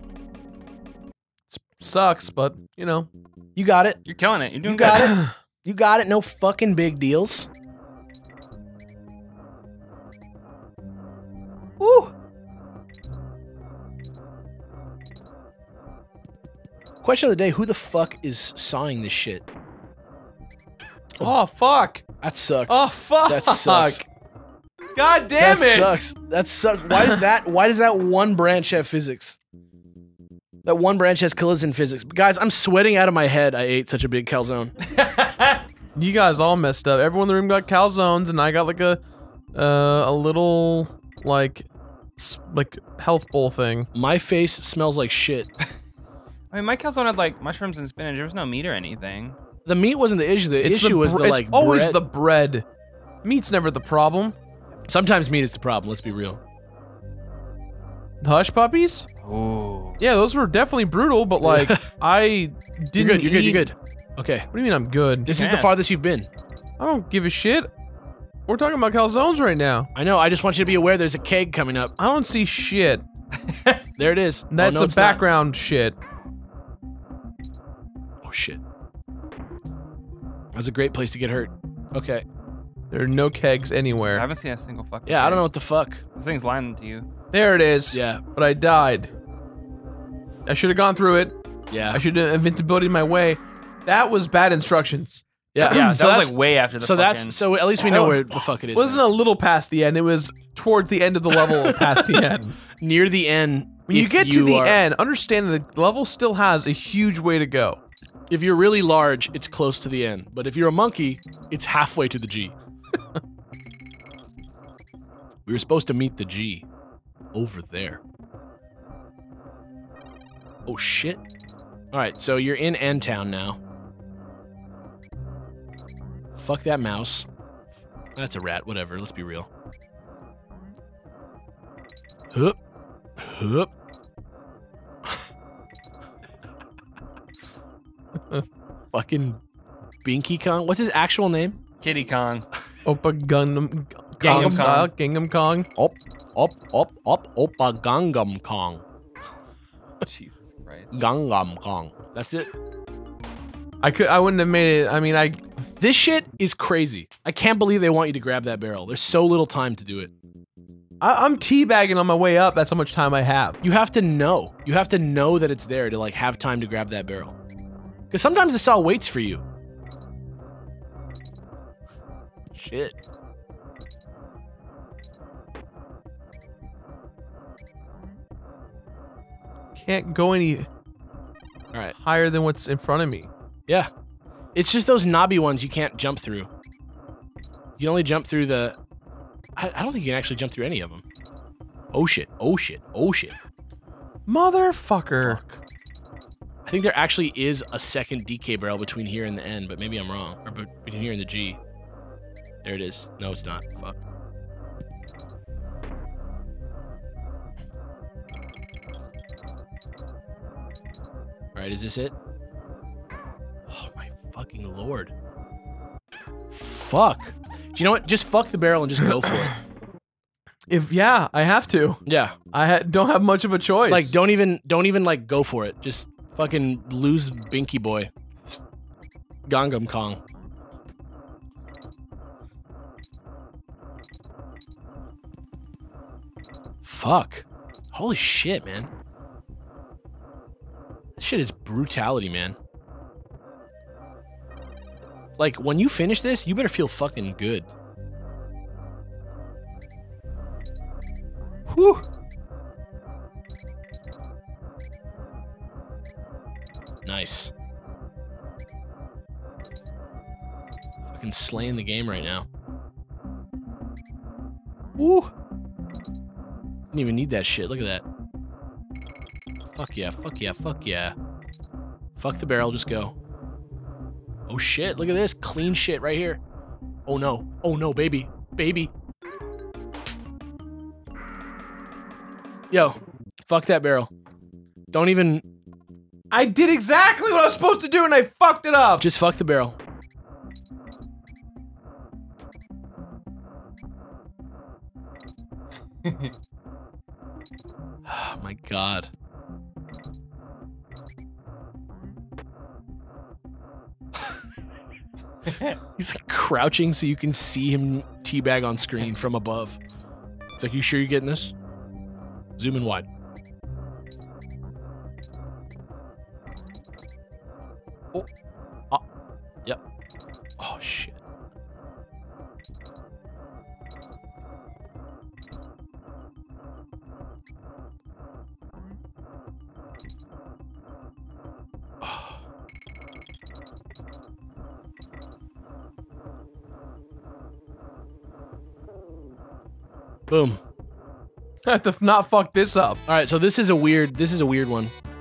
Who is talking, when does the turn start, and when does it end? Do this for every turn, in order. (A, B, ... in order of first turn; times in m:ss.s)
0:01.5-0:03.1 A
0:03.6-0:04.0 B
0:04.1-0:05.1 C
0:04.6-0:07.5 B
0:04.8-0:05.4 A
0:11.8-0:12.1 A
0:17.0-0:19.4 B
0:21.2-0:22.0 A
0:22.2-0:24.1 B
0:22.7-0:24.0 A
0:25.0-0:26.0 A
0:25.4-0:29.4 B
0:30.6-0:34.8 B
0:34.9-0:35.6 C
0:36.0-0:39.0 A
0:39.6-0:43.9 A
0:43.9-0:45.5 B
0:46.5-0:49.4 C
0:49.6-0:52.0 B
0:50.6-0:52.7 A
0:53.2-0:54.4 A
0:54.9-0:56.4 B
0:58.2-0:59.1 A
0:59.2-1:00.0 C
1:00.0-1:03.6 A
1:01.4-1:01.9 B
1:03.0-1:04.5 B
1:04.5-1:05.3 A
1:05.3-1:06.3 B
1:05.3-1:05.7 C
1:06.8-1:07.7 A
1:08.5-1:09.9 A
1:10.0-1:11.9 B
1:12.0-1:13.0 A
1:13.5-1:13.8 C
1:14.0-1:15.2 B
1:14.5-1:16.0 A
1:18.2-1:18.6 B
1:20.5-1:22.2 B
1:22.9-1:24.3 A
1:24.1-1:25.5 C
1:25.1-1:26.0 B
1:26.2-1:27.1 C
1:27.3-1:29.1 A
1:27.9-1:28.2 B
1:30.5-1:31.4 A
1:31.7-1:32.0 B
1:31.9-1:35.9 A
1:35.5-1:39.0 B
1:35.6-1:37.4 C
1:37.8-1:42.6 A
1:41.4-1:42.2 B
1:42.8-1:44.8 B
1:43.9-1:47.8 A
1:48.3-1:52.5 B
1:55.5-1:56.7 B
1:57.3-1:58.0 B
2:00.7-2:01.2 B
2:01.9-2:03.6 B
2:06.4-2:07.3 B
2:08.2-2:09.5 B
2:12.3-2:12.6 B
2:13.2-2:13.7 B
2:18.9-2:19.4 B
2:20.0-2:21.6 B
2:21.8-2:22.5 C
2:22.8-2:25.7 A
2:24.2-2:24.7 B
2:24.2-2:24.9 C
2:25.8-2:28.8 B
2:30.1-2:30.9 C
2:30.9-2:32.5 B
2:33.8-2:35.4 A
2:35.8-2:40.1 B
2:41.0-2:43.6 A
2:43.6-2:47.4 B
2:48.1-2:49.4 B
2:52.5-2:53.0 B
2:59.8-3:00.7 A
3:02.0-3:03.3 A
3:04.6-3:06.5 B
3:07.8-3:08.8 B
3:09.6-3:11.0 B
3:11.9-3:13.4 B
3:14.3-3:15.4 A
3:15.2-3:15.6 B
3:16.6-3:21.6 B
3:22.6-3:24.0 B
3:31.6-3:32.2 B
3:33.7-3:35.1 B
3:36.5-3:39.6 B
3:40.7-3:44.2 A
3:42.1-3:42.4 B
3:43.9-3:48.1 B
3:49.5-3:50.2 B
3:56.8-3:58.9 B
4:01.2-4:02.6 B
4:05.4-4:07.7 B
4:11.7-4:12.0 B
4:17.0-4:17.5 B
4:21.1-4:22.4 B
4:25.0-4:25.3 B
4:26.9-4:28.0 B
4:29.7-4:31.2 B
4:32.2-4:33.2 B
4:34.5-4:36.4 B
4:37.1-4:38.9 B
4:42.7-4:44.1 B
4:44.9-4:45.4 B
4:46.3-4:49.1 A
4:49.0-4:49.8 B
4:56.0-4:56.3 C
4:58.1-4:59.1 B
5:05.5-5:05.8 C
5:06.0-5:09.8 B
5:10.6-5:11.5 B
5:12.6-5:13.1 B
5:20.6-5:21.2 B
5:32.0-5:32.3 B
5:40.3-5:40.6 B
5:41.6-5:43.0 A
5:43.1-5:44.9 B